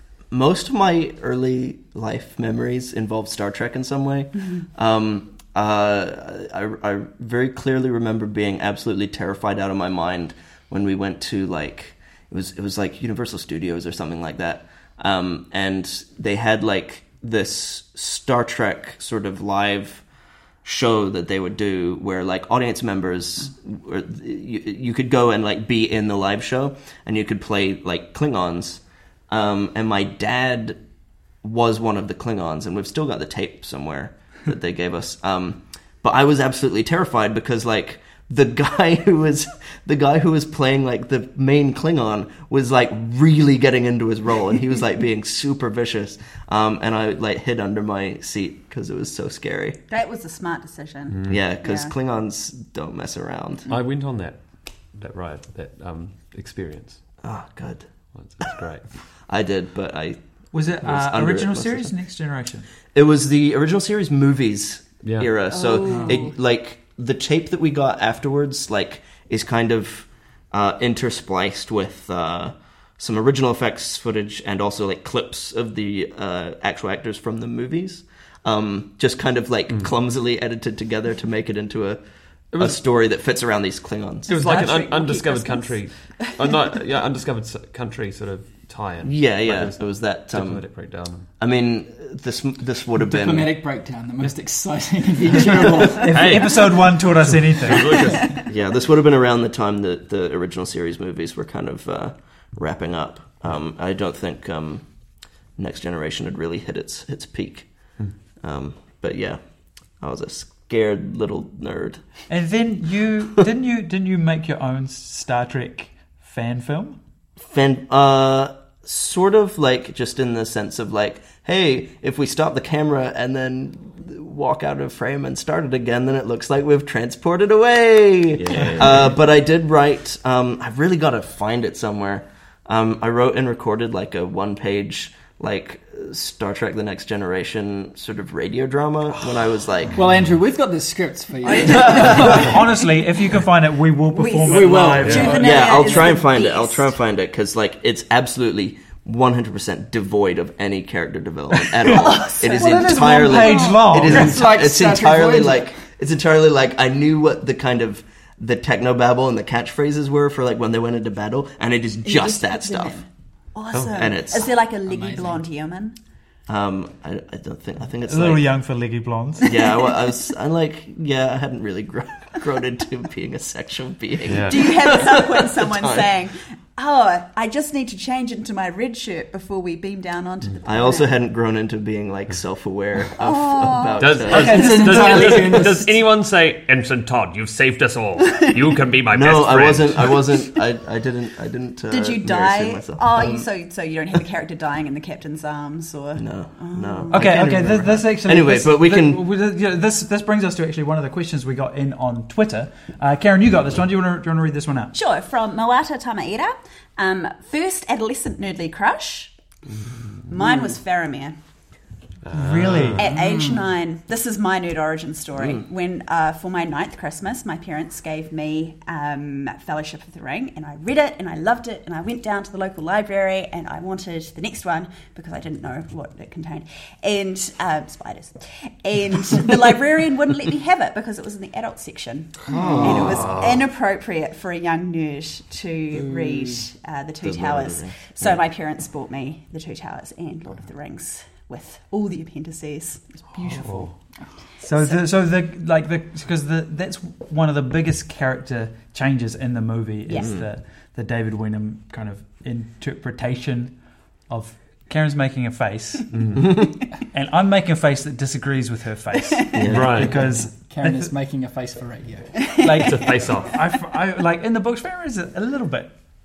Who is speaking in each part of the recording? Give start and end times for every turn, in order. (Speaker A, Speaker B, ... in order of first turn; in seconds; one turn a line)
Speaker A: 0.3-20.0
Speaker A: 20.6-30.8
Speaker A: 31.4-49.8
Speaker B: 49.9-51.9
Speaker C: 51.1-51.4
Speaker A: 51.3-53.7
Speaker C: 53.7-54.4
Speaker C: 55.0-57.0
Speaker A: 57.2-57.9
Speaker C: 58.2-58.9
Speaker A: 59.3-60.2
Speaker D: 60.5-62.7
Speaker A: 60.8-61.9
Speaker A: 62.9-82.0
Speaker C: 65.0-65.3
Speaker B: 65.5-66.3
Speaker C: 82.5-82.8
Speaker A: 82.6-84.3
Speaker B: 84.3-86.5
Speaker C: 84.3-91.3
Speaker A: 89.0-90.6
Speaker A: 91.4-93.5
Speaker E: 93.0-96.2
Speaker D: 95.8-98.1
Speaker C: 96.0-96.8
Speaker C: 97.5-98.4
Speaker A: 98.3-104.8
Speaker A: 105.6-107.7
Speaker A: 108.4-109.4
Speaker A: 110.0-112.0
Speaker D: 112.3-117.0
Speaker A: 117.5-140.0
Speaker C: 128.4-128.9
Speaker E: 139.9-142.6
Speaker B: 141.4-142.5
Speaker D: 142.1-146.2
Speaker B: 144.1-146.9
Speaker E: 144.5-145.3
Speaker C: 145.0-145.4
Speaker A: 145.3-163.0
Speaker D: 151.8-154.5
Speaker B: 151.9-153.9
Speaker E: 154.1-155.7
Speaker B: 162.0-166.0
Speaker C: 163.7-164.0
Speaker A: 163.9-164.5
Speaker E: 164.9-165.4
Speaker A: 166.5-168.5
Speaker D: 168.1-169.6
Speaker A: 169.4-176.1
Speaker B: 169.5-169.9
Speaker C: 174.2-174.6
Speaker B: 174.4-181.2
Speaker A: 180.7-184.7
Speaker B: 183.2-185.4
Speaker C: 184.0-190.3
Speaker E: 184.3-186.0
Speaker A: 189.1-193.5
Speaker B: 191.9-197.4
Speaker A: 196.2-199.2
Speaker D: 197.1-205.0
Speaker B: 204.9-209.3
Speaker B: 210.3-211.4
Speaker C: 212.2-213.0
Speaker D: 212.3-213.1
Speaker B: 213.0-243.9
Speaker E: 213.1-213.7
Speaker A: 232.5-233.4
Speaker E: 232.5-233.0
Speaker C: 232.7-233.6
Speaker A: 237.2-238.4
Speaker C: 243.5-243.9
Speaker D: 244.6-253.8
Speaker B: 250.1-250.3
Speaker A: 250.2-250.4
Speaker D: 254.3-261.1
Speaker C: 256.1-256.5
Speaker B: 259.3-259.7
Speaker A: 259.6-260.1
Speaker C: 259.6-260.3
Speaker E: 260.2-262.5
Speaker B: 262.4-263.1
Speaker D: 262.6-265.9
Speaker C: 262.8-263.6